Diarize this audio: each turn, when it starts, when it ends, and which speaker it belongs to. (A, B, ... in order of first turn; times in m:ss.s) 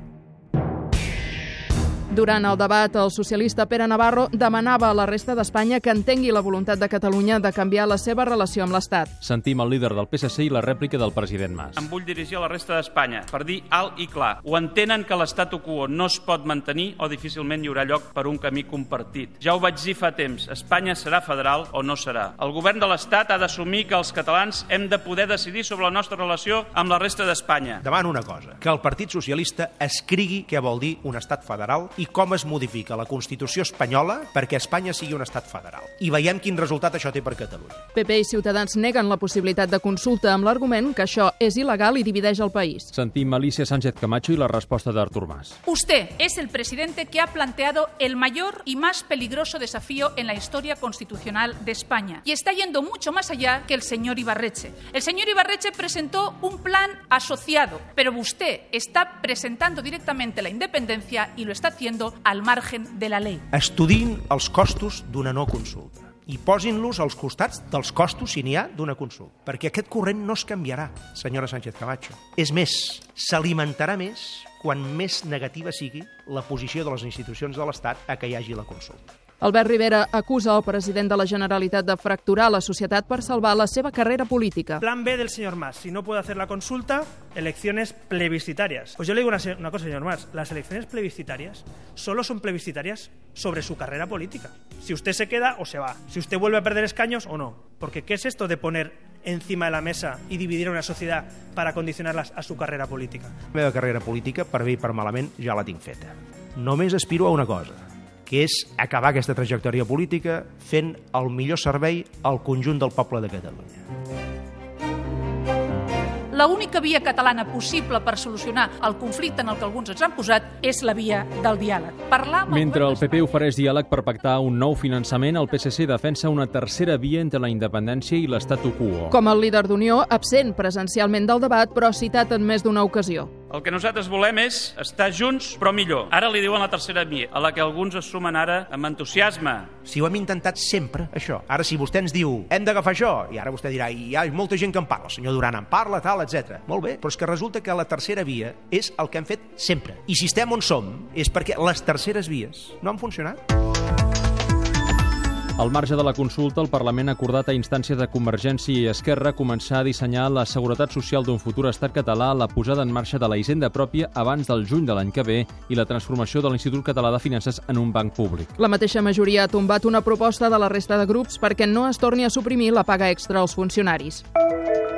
0:02.1-0:09.1 A
0:09.2-0:11.8 B
0:11.8-0:27.8 C
0:27.8-0:37.8 D
0:37.9-0:42.9 A
0:42.9-0:45.6 B
0:45.6-1:03.4 E
1:03.5-1:19.1 D
1:19.4-1:24.8 A
1:24.8-1:43.3 F
1:43.5-1:53.8 D
1:56.3-2:03.4 E
2:02.5-2:09.2 B
2:09.1-2:13.3 A
2:13.5-2:19.7 C
2:19.8-2:33.4 D
2:35.6-2:48.5 B
2:48.6-2:54.2 A